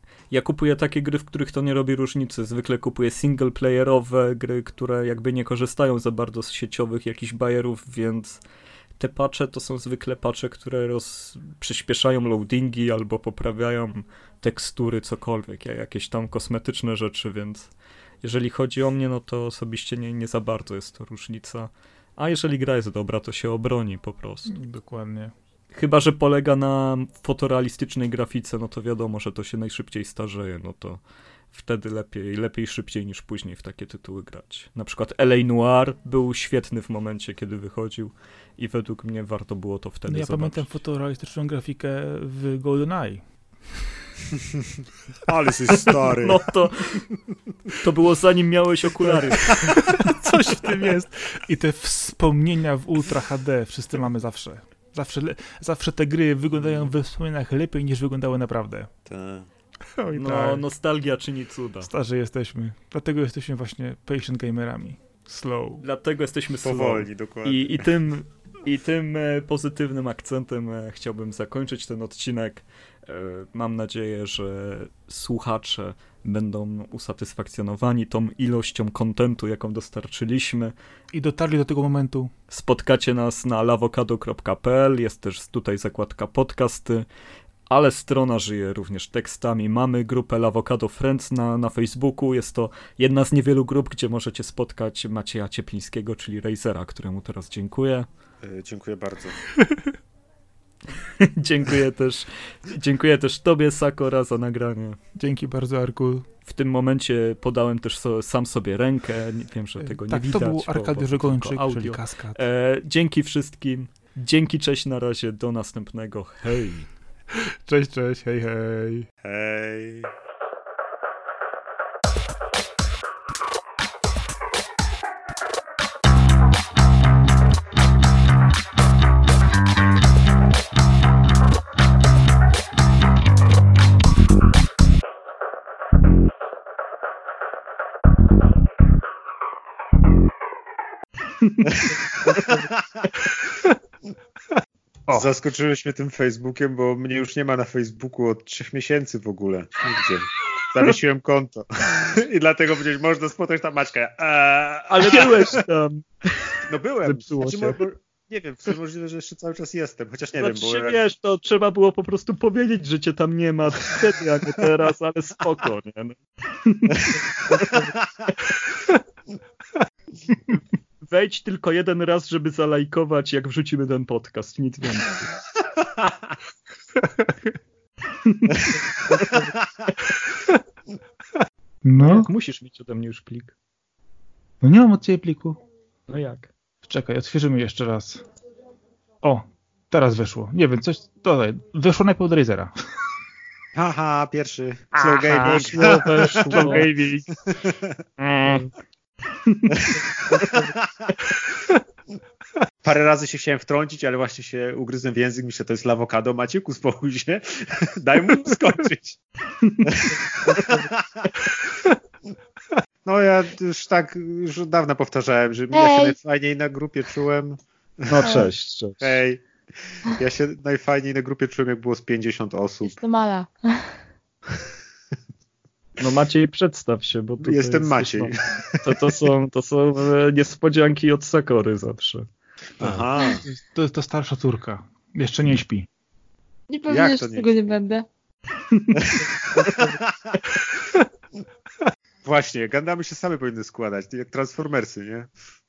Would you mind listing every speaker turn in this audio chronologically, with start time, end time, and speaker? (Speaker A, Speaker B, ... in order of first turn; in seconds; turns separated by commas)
Speaker A: 0.3-8.4, Speaker A: 9.0-17.7, Speaker A: 18.2-24.5, Speaker B: 24.5-25.3, Speaker A: 25.7-31.0, Speaker A: 31.5-40.7, Speaker B: 40.1-43.2, Speaker C: 45.2-46.5, Speaker A: 45.7-47.1, Speaker A: 47.8-50.4, Speaker B: 49.5-58.9, Speaker C: 56.6-56.9, Speaker C: 59.1-59.5, Speaker B: 60.0-60.6, Speaker A: 60.1-61.9, Speaker B: 61.9-65.8, Speaker A: 65.8-80.7, Speaker C: 66.6-67.9, Speaker B: 81.1-82.3, Speaker A: 82.5-87.1, Speaker A: 87.7-98.1, Speaker C: 98.4-99.4, Speaker A: 101.0-105.0, Speaker B: 105.2-106.3, Speaker A: 106.5-116.9, Speaker B: 109.8-112.4, Speaker B: 117.3-119.1, Speaker C: 119.2-120.1, Speaker C: 141.7-143.3, Speaker C: 145.1-155.6, Speaker A: 154.9-157.8, Speaker C: 156.6-161.0, Speaker A: 160.4-168.0, Speaker A: 171.1-175.3, Speaker B: 177.0-177.3, Speaker A: 178.2-179.4, Speaker B: 181.8-182.3, Speaker A: 182.0-183.5, Speaker B: 184.6-185.6, Speaker A: 186.1-186.5, Speaker B: 186.8-188.2, Speaker B: 189.2-192.7, Speaker C: 193.8-196.9, Speaker B: 195.0-197.3, Speaker A: 195.4-196.9, Speaker C: 197.5-198.0, Speaker B: 198.2-198.7, Speaker A: 198.4-198.7, Speaker A: 199.5-199.7, Speaker C: 199.7-201.1, Speaker C: 202.8-209.2, Speaker A: 209.6-209.9, Speaker C: 209.8-211.3, Speaker A: 210.5-210.8, Speaker C: 213.0-218.5, Speaker D: 215.7-216.2, Speaker A: 218.1-219.2, Speaker D: 218.2-218.5, Speaker C: 219.0-223.0, Speaker D: 222.8-224.0, Speaker A: 226.0-232.3, Speaker C: 227.4-229.2, Speaker C: 232.8-233.4, Speaker B: 232.8-235.9, Speaker D: 236.7-238.1, Speaker C: 236.9-237.8, Speaker A: 238.7-239.7, Speaker C: 238.9-240.6, Speaker C: 242.2-245.3